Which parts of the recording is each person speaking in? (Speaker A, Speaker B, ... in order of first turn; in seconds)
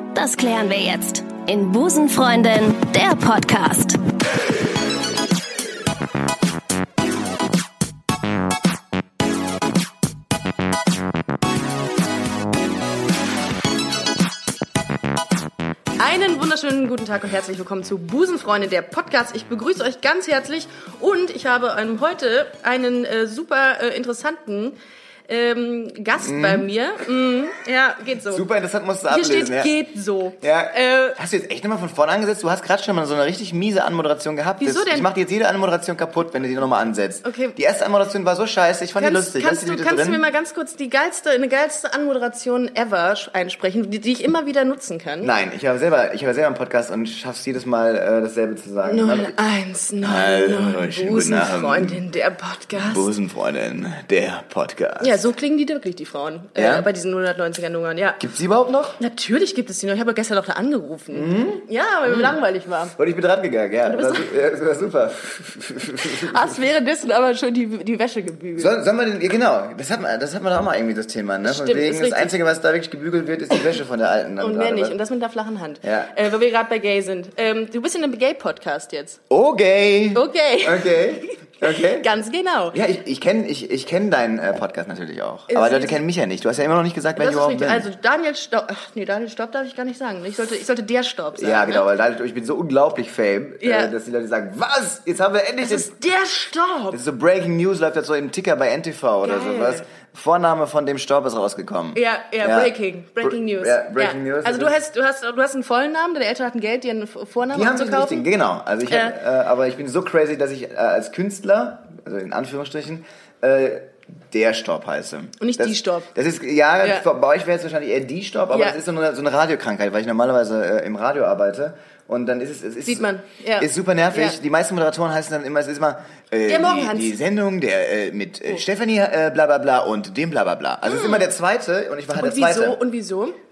Speaker A: 0.1-4.0
Speaker B: 16.0-24.8, 25.3-28.4, 29.1-31.2, 34.6-35.1, 37.2-37.6, 39.0-45.3, 48.8-53.1, 55.0-58.2, 59.0-63.0, 63.9-64.3, 66.0-68.8, 71.4-72.3, 74.4-79.2, 80.1-82.8, 85.5-86.0, 87.2-91.9, 93.6-93.9, 95.6-97.0, 99.2-99.8, 102.0-108.3, 108.9-109.2, 115.4-116.1, 118.5-118.8, 122.9-124.4, 126.5-127.1, 130.8-131.2, 132.1-133.4
Speaker C: 26.2-26.7, 28.3-29.7, 30.4-40.2, 45.2-49.3, 50.0-52.0, 52.7-55.2, 56.6-56.9, 58.2-59.0, 61.1-62.3, 63.0-66.6, 68.6-75.0, 75.8-76.2, 79.3-82.1, 82.7-87.9, 91.3-95.9, 96.9-104.8, 107.5-123.1, 123.6-132.8